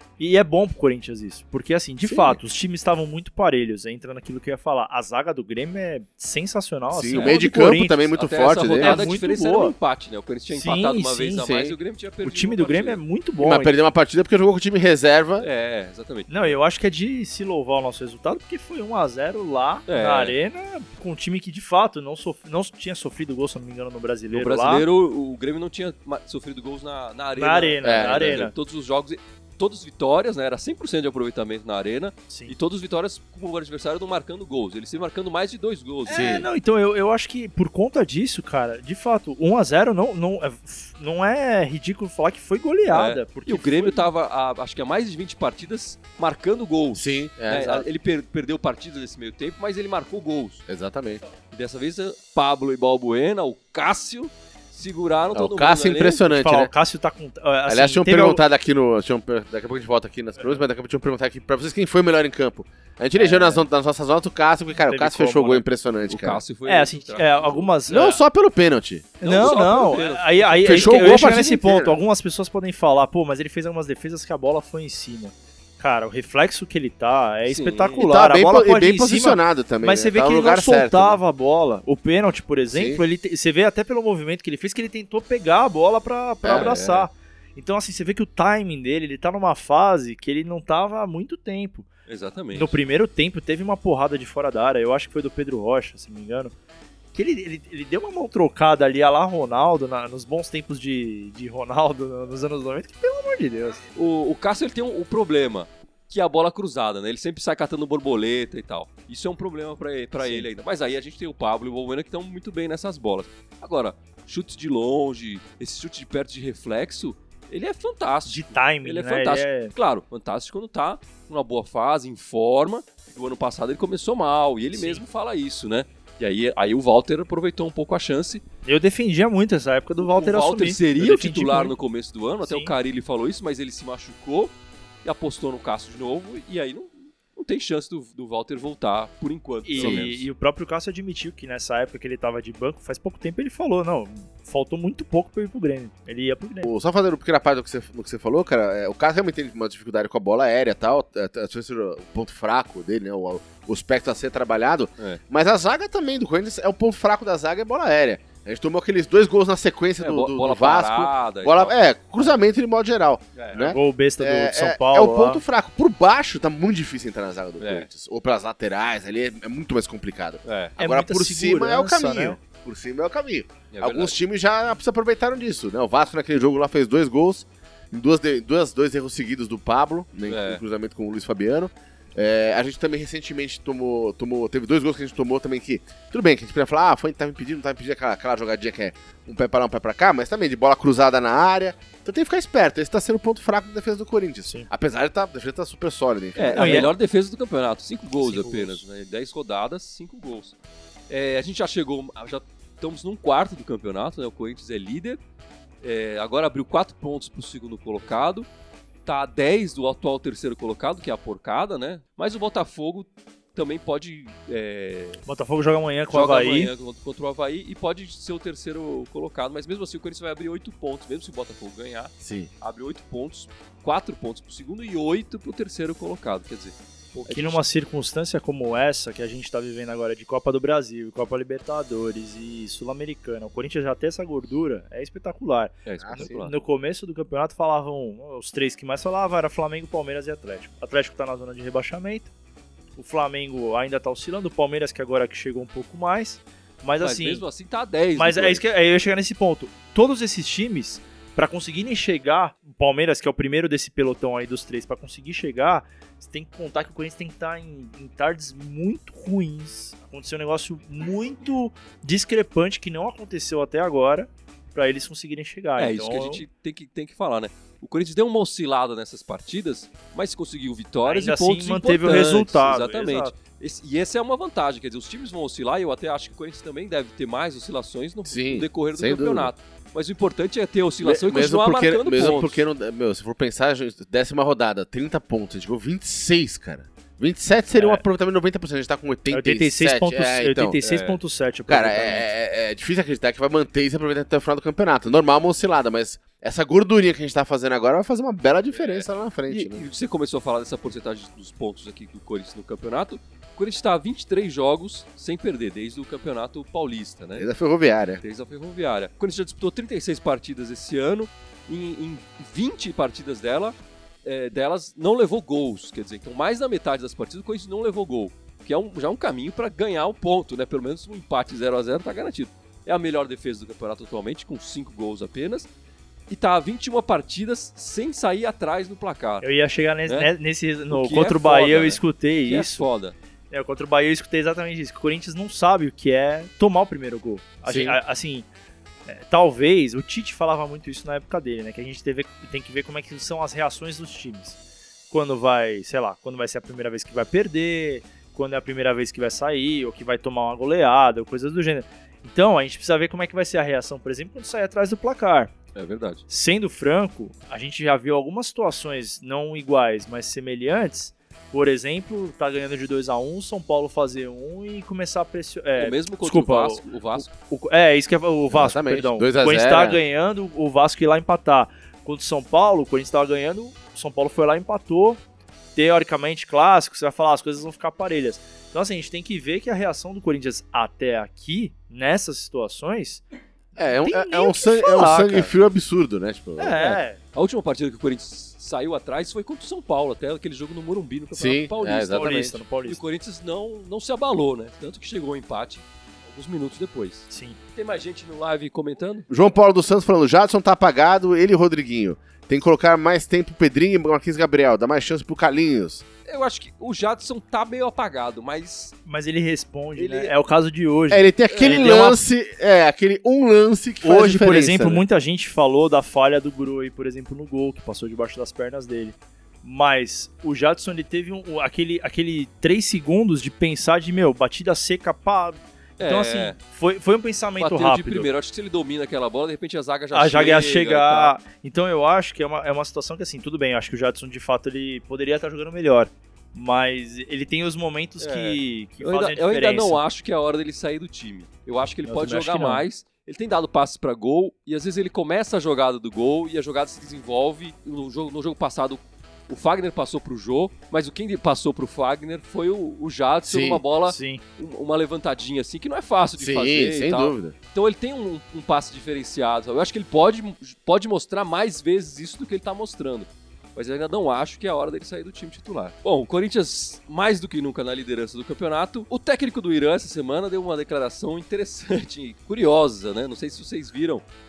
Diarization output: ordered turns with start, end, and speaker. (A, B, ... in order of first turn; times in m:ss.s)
0:00.2-0:08.1 A
0:02.0-0:02.4 B
0:06.9-0:09.1 B
0:07.1-0:07.4 C
0:08.2-0:13.0 C
0:08.8-0:09.7 A
0:10.5-0:11.4 A
0:11.4-0:11.8 B
0:12.2-0:13.7 A
0:13.4-0:15.5 B
0:15.4-0:16.5 C
0:16.3-0:24.8 A
0:19.9-0:20.3 C
0:24.3-0:36.3 C
0:27.3-0:28.5 A
0:27.8-0:28.4 B
0:32.3-0:32.5 A
0:36.1-0:44.1 A
0:36.1-0:36.5 B
0:42.9-0:50.6 C
0:46.9-0:47.8 B
0:50.7-0:51.2 B
0:51.5-0:56.2 C
0:55.3-0:56.7 B
0:56.3-0:58.4 A
0:57.7-1:06.4 B
1:03.1-1:03.6 A
1:04.8-1:05.6 A
1:06.1-1:07.7 C
1:06.6-1:08.2 A
1:07.9-1:09.6 B
1:09.2-1:11.2 C
1:09.2-1:31.9 A
1:10.6-1:12.0 B
1:17.5-1:18.0 C
1:18.0-1:21.2 B
1:22.7-1:23.0 B
1:26.4-1:26.8 B
1:26.5-1:27.0 C
1:32.1-1:32.8 C
1:32.5-1:36.5 A
1:37.1-1:43.8 A
1:43.9-2:08.4 C
1:50.2-1:50.5 A
1:58.3-1:59.7 A
2:04.7-2:05.0 A
2:08.6-2:11.7 A
2:10.0-2:20.3 C
2:12.4-2:12.7 A
2:19.6-2:26.7 A
2:19.8-2:20.0 B
2:26.6-3:16.9 B
2:40.0-2:41.7 C
2:43.4-2:43.6 C
2:43.5-2:45.4 A
2:47.6-2:47.9 C
2:50.4-2:50.7 C
2:50.8-2:52.4 A
2:53.7-2:54.2 C
3:00.3-3:00.6 C
3:16.4-3:20.5 C
3:16.5-3:16.9 A
3:18.2-3:18.8 A
3:21.1-3:25.2 C
3:25.8-3:28.5 C
3:29.0-3:35.2 C
3:35.2-3:36.7 A
3:36.1-3:47.6 C
3:42.2-3:42.5 B
3:47.3-4:02.3 A
3:55.8-3:56.5 C
3:56.0-3:56.3 B
4:03.0-4:07.4 A
4:07.0-4:08.6 C
4:08.2-4:26.4 A
4:25.8-4:42.6 C
4:31.0-4:33.3 A
4:38.2-4:39.5 B
4:41.0-4:50.8 B
4:47.7-4:48.0 A
4:49.3-4:52.3 A
4:50.8-4:51.2 C
4:51.7-4:59.8 B
4:58.7-5:07.5 C
5:07.4-5:08.2 B
5:08.2-5:25.7 C
5:26.3-5:29.4 C
5:29.4-5:32.8 A
5:30.9-5:33.1 C
5:33.5-5:38.4 A
5:37.6-5:38.0 B
5:39.1-5:44.6 A
5:45.1-5:55.5 A
5:55.7-5:56.2 C
5:56.3-6:15.2 A
6:05.8-6:07.3 C
6:08.5-6:10.0 B
6:15.8-6:23.2 A
6:23.8-6:26.8 B
6:23.9-6:25.5 A
6:26.6-6:27.2 A
6:26.8-6:39.3 C
6:31.3-6:32.6 B
6:32.1-6:33.0 A
6:37.3-6:37.6 A
6:39.3-6:46.0 B
6:46.2-6:48.9 C
6:49.0-6:52.2 A
6:50.0-6:50.3 C
6:51.1-6:55.0 B
6:51.6-6:52.0 C
6:54.0-7:08.3 A
7:06.0-7:06.6 C
7:07.6-7:11.3 C
7:10.1-7:20.0 A
7:18.2-7:54.2 C
7:22.0-7:22.8 A
7:33.4-7:33.8 B
7:34.0-7:34.4 A
7:36.4-7:37.5 B